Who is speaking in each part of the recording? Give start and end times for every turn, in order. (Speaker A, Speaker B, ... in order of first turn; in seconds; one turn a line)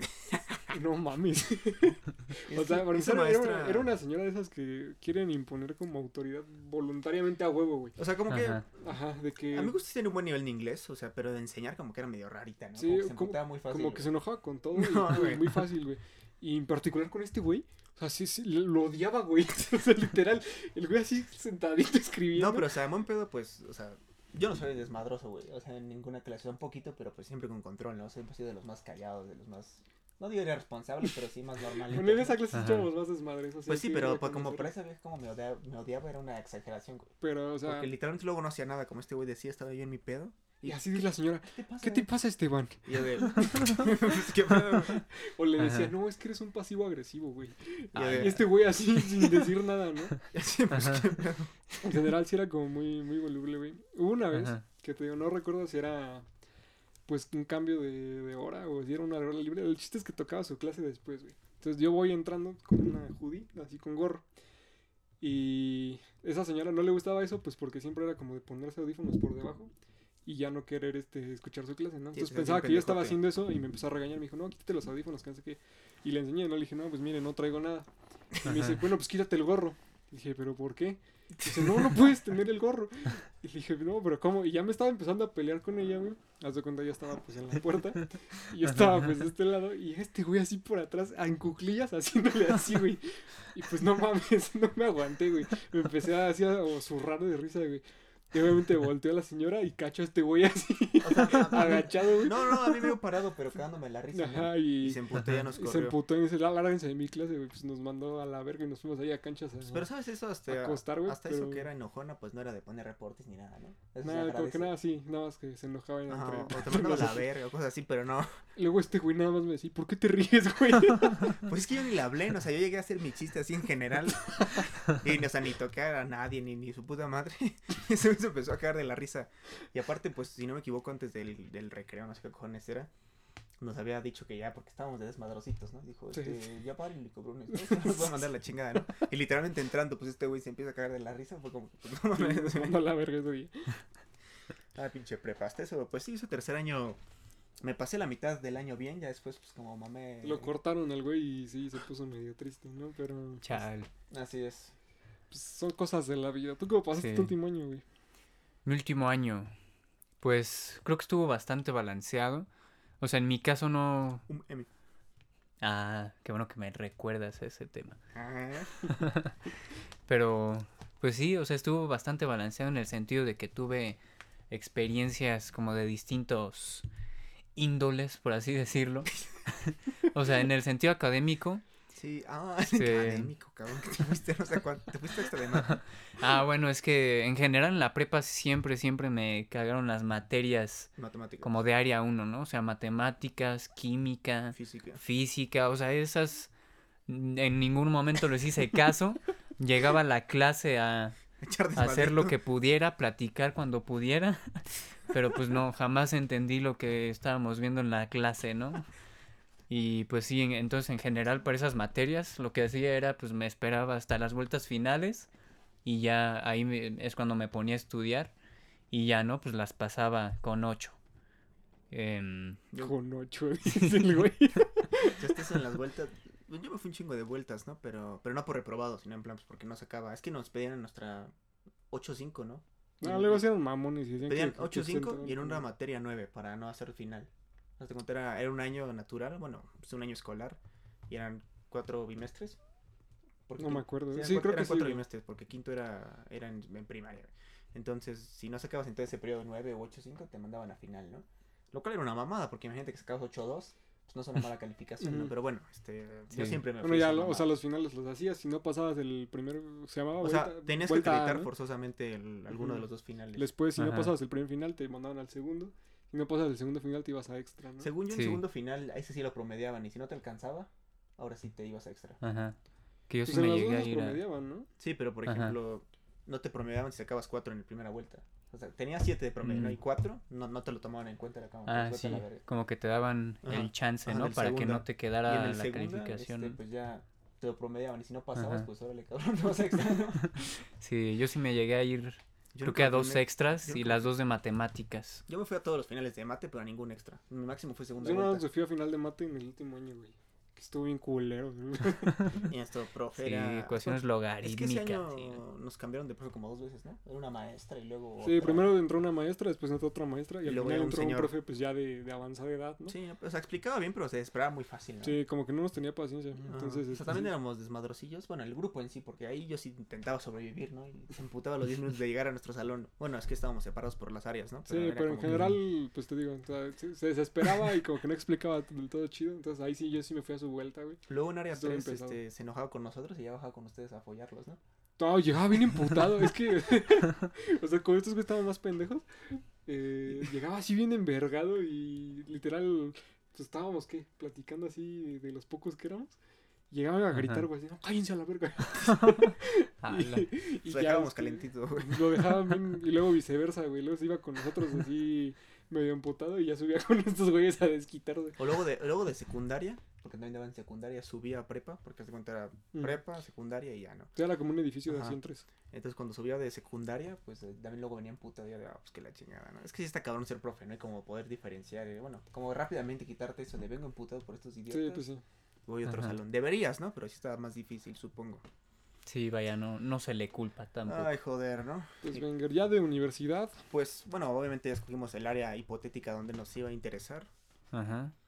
Speaker A: 0.2-0.7
Speaker B: 0.7-8.0
Speaker A: 2.5-3.9
Speaker A: 8.0-8.7
Speaker C: 8.3-8.6
Speaker B: 8.8-9.8
Speaker A: 9.5-14.1
Speaker B: 12.8-22.7
Speaker A: 14.7-15.7
Speaker A: 22.3-32.5
Speaker B: 31.9-34.7
Speaker C: 32.5-32.9
Speaker A: 33.7-37.1
Speaker B: 37.2-37.9
Speaker A: 37.6-40.9
Speaker B: 40.6-44.1
Speaker A: 41.5-42.1
Speaker A: 42.9-45.0
Speaker B: 44.9-50.2
Speaker C: 45.6-45.9
Speaker A: 47.9-49.5
Speaker A: 50.3-51.6
Speaker C: 50.7-51.1
Speaker B: 51.8-56.3
Speaker C: 54.3-54.6
Speaker B: 57.1-64.2
Speaker B: 65.2-69.7
Speaker B: 70.3-103.0
Speaker A: 72.1-73.2
Speaker C: 78.5-78.7
Speaker A: 81.4-82.0
Speaker A: 101.0-106.0
Speaker B: 104.1-109.9
Speaker A: 109.6-114.7
Speaker B: 110.5-111.7
Speaker B: 114.0-117.3
Speaker A: 116.1-118.4
Speaker B: 118.6-121.4
Speaker A: 121.4-132.9
Speaker A: 133.6-142.8
Speaker B: 136.1-136.4
Speaker B: 137.5-138.1
Speaker B: 142.1-143.8
Speaker A: 144.8-147.0
Speaker A: 147.6-150.5
Speaker B: 150.2-153.6
Speaker C: 153.4-153.9
Speaker A: 154.1-154.7
Speaker B: 155.3-157.8
Speaker C: 157.0-157.3
Speaker C: 158.7-159.5
Speaker C: 160.2-162.5
Speaker C: 163.0-164.3
Speaker A: 164.3-164.7
Speaker C: 165.6-168.0
Speaker A: 168.1-168.9
Speaker C: 168.9-169.4
Speaker C: 170.1-174.0
Speaker C: 174.5-176.9
Speaker C: 177.6-181.6
Speaker A: 181.9-185.8
Speaker C: 182.7-183.3
Speaker C: 185.7-190.9
Speaker A: 191.0-191.7
Speaker C: 191.4-196.5
Speaker A: 194.5-195.0
Speaker C: 197.1-201.2
Speaker A: 201.4-202.4
Speaker C: 201.8-208.9
Speaker C: 209.7-215.3
Speaker C: 215.8-218.3
Speaker C: 218.9-221.0
Speaker C: 221.9-222.6
Speaker B: 222.8-225.4
Speaker A: 225.1-231.3
Speaker A: 231.9-233.4
Speaker B: 233.0-235.6
Speaker A: 234.3-242.6
Speaker A: 243.5-257.5
Speaker B: 243.6-245.0
Speaker B: 255.0-255.3
Speaker C: 256.3-256.6
Speaker B: 256.8-261.5
Speaker A: 260.2-263.5
Speaker B: 262.5-262.8
Speaker B: 263.4-267.9
Speaker C: 263.8-264.1
Speaker A: 267.8-272.2
Speaker C: 268.1-268.4
Speaker C: 272.2-272.6
Speaker C: 273.1-274.2
Speaker B: 273.3-274.7
Speaker A: 274.8-282.4
Speaker C: 275.3-275.6
Speaker C: 279.4-279.8
Speaker C: 281.7-286.6
Speaker A: 283.4-290.4
Speaker C: 288.4-288.7
Speaker C: 290.2-295.2
Speaker A: 292.5-294.1
Speaker A: 295.3-298.5
Speaker B: 298.0-302.4
Speaker A: 302.3-308.7
Speaker C: 303.2-305.4
Speaker B: 308.2-313.0
Speaker A: 310.4-311.3
Speaker A: 312.9-315.2
Speaker B: 315.0-317.3
Speaker A: 316.4-325.6
Speaker B: 324.7-332.2
Speaker C: 325.2-325.6
Speaker A: 331.1-334.6
Speaker B: 335.0-346.2
Speaker B: 346.7-358.4
Speaker C: 347.1-347.4
Speaker C: 348.9-350.3
Speaker A: 350.7-352.4
Speaker A: 358.4-364.1
Speaker B: 364.2-365.5
Speaker A: 364.9-365.2
Speaker A: 365.7-375.0
Speaker B: 374.7-375.2
Speaker A: 375.7-378.4
Speaker C: 375.9-376.1
Speaker C: 379.1-381.1
Speaker A: 380.9-382.2
Speaker B: 382.0-383.6
Speaker A: 383.7-387.3
Speaker C: 387.7-388.1